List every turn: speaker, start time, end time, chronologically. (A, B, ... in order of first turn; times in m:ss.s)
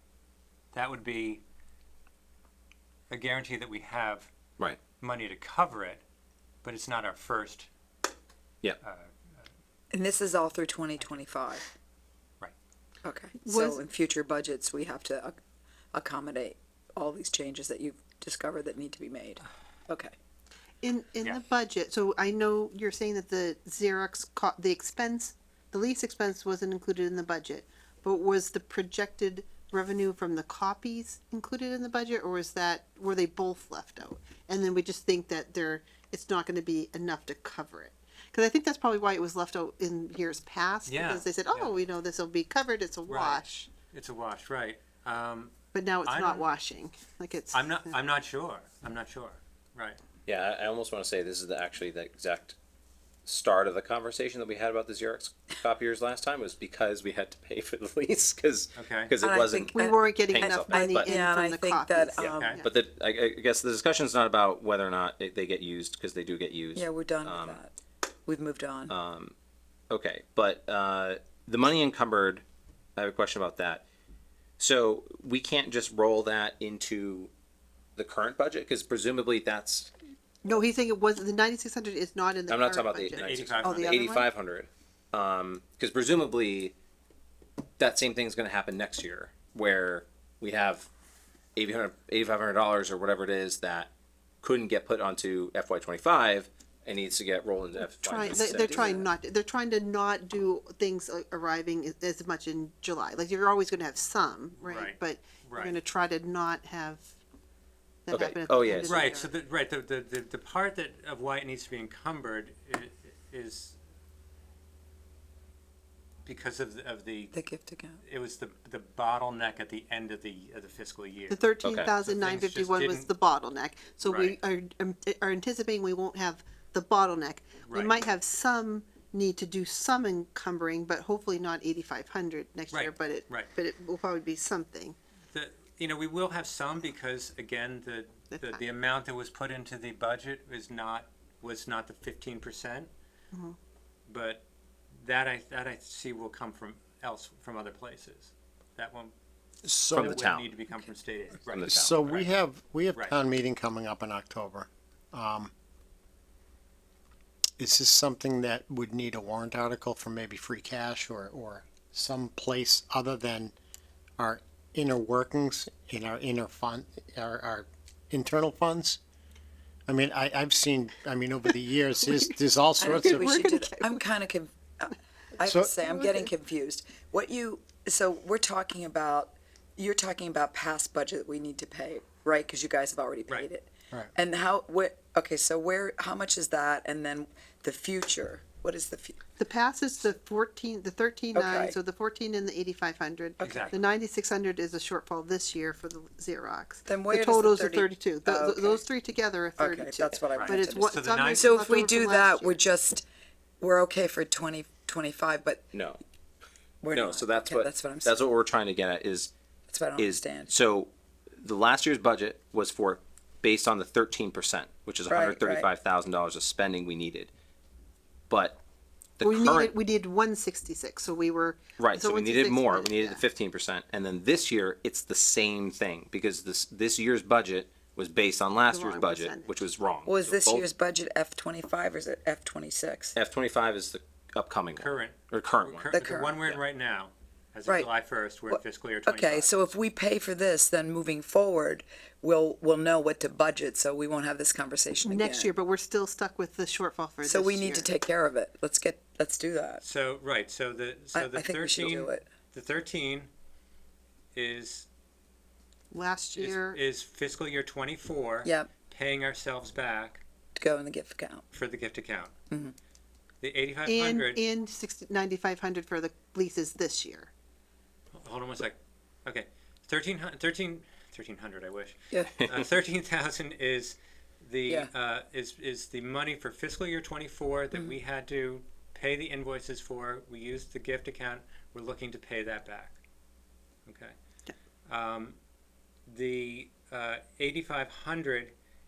0:00.7-0:01.4 A
0:03.1-0:04.3 A
0:05.0-0:06.0 A
0:06.6-0:07.7 A
0:08.8-0:09.1 A
0:09.9-0:11.7 B
0:13.0-0:15.4 B
0:13.4-0:13.8 C
0:15.9-0:20.1 B
0:20.8-0:43.7 C
0:40.9-0:41.8 A
0:43.1-0:45.5 A
0:45.7-0:47.9 C
0:46.0-0:46.5 A
0:47.5-0:50.0 A
0:50.2-0:52.6 D
0:53.2-1:01.1 D
0:58.8-0:59.1 A
0:59.2-1:02.6 B
0:59.7-1:02.7 C
1:02.2-1:07.6 D
1:02.2-1:02.6 A
1:06.7-1:07.7 B
1:08.2-1:08.9 B
1:08.9-1:09.3 D
1:09.9-1:12.4 D
1:13.0-1:13.8 D
1:14.6-1:17.3 D
1:18.0-1:19.9 D
1:20.4-1:24.3 C
1:22.5-1:26.7 D
1:23.2-1:24.1 A
1:27.8-1:30.9 D
1:31.6-1:39.0 D
1:38.0-1:47.1 C
1:44.6-1:45.8 A
1:48.0-1:49.3 C
1:48.1-1:49.0 D
1:48.8-1:53.8 A
1:56.2-1:57.3 A
1:57.3-1:58.0 B
1:58.0-2:01.4 A
2:01.3-2:15.0 C
2:01.6-2:01.9 D
2:02.0-2:03.1 A
2:04.0-2:04.3 A
2:07.6-2:07.9 A
2:12.7-2:13.5 A
2:15.3-2:22.9 A
2:18.3-2:18.6 C
2:24.1-2:24.4 A
2:25.0-2:29.1 A
2:29.6-2:30.3 E
2:29.9-2:30.5 D
2:29.9-2:32.3 A
2:31.5-2:31.9 D
2:31.6-2:35.5 E
2:37.6-2:43.5 E
2:44.2-2:49.0 E
2:49.9-2:53.5 E
2:52.8-3:09.2 B
2:53.0-2:54.0 C
2:55.4-2:55.8 E
2:55.9-2:56.2 C
3:09.4-3:22.6 C
3:11.3-3:11.8 B
3:13.4-3:13.8 A
3:13.4-3:13.8 B
3:16.8-3:18.8 B
3:19.6-3:23.0 B
3:20.3-3:21.6 A
3:23.6-3:25.7 B
3:25.7-3:26.0 D
3:26.8-3:28.3 B
3:26.9-3:29.3 D
3:29.7-3:30.5 B
3:30.0-3:37.3 D
3:35.1-3:35.7 B
3:38.3-3:38.6 D
3:39.2-3:39.7 D
3:39.2-3:43.2 C
3:41.8-3:50.7 D
3:48.7-3:49.5 C
3:50.0-3:53.2 B
3:53.2-3:55.9 D
3:54.8-3:59.7 A
3:55.9-3:56.5 B
3:58.5-4:05.5 B
4:05.0-4:07.9 C
4:07.2-4:09.8 B
4:09.8-4:13.3 A
4:11.1-4:12.3 B
4:14.3-4:14.9 A
4:15.9-4:16.8 C
4:16.3-4:20.2 A
4:18.4-4:18.7 B
4:20.6-4:21.4 B
4:21.5-4:22.3 A
4:23.4-4:24.4 A
4:23.8-4:27.3 C
4:28.1-4:43.0 A
4:32.1-4:32.4 B
4:43.8-4:44.1 A
4:44.9-4:45.4 A
4:46.1-4:48.5 A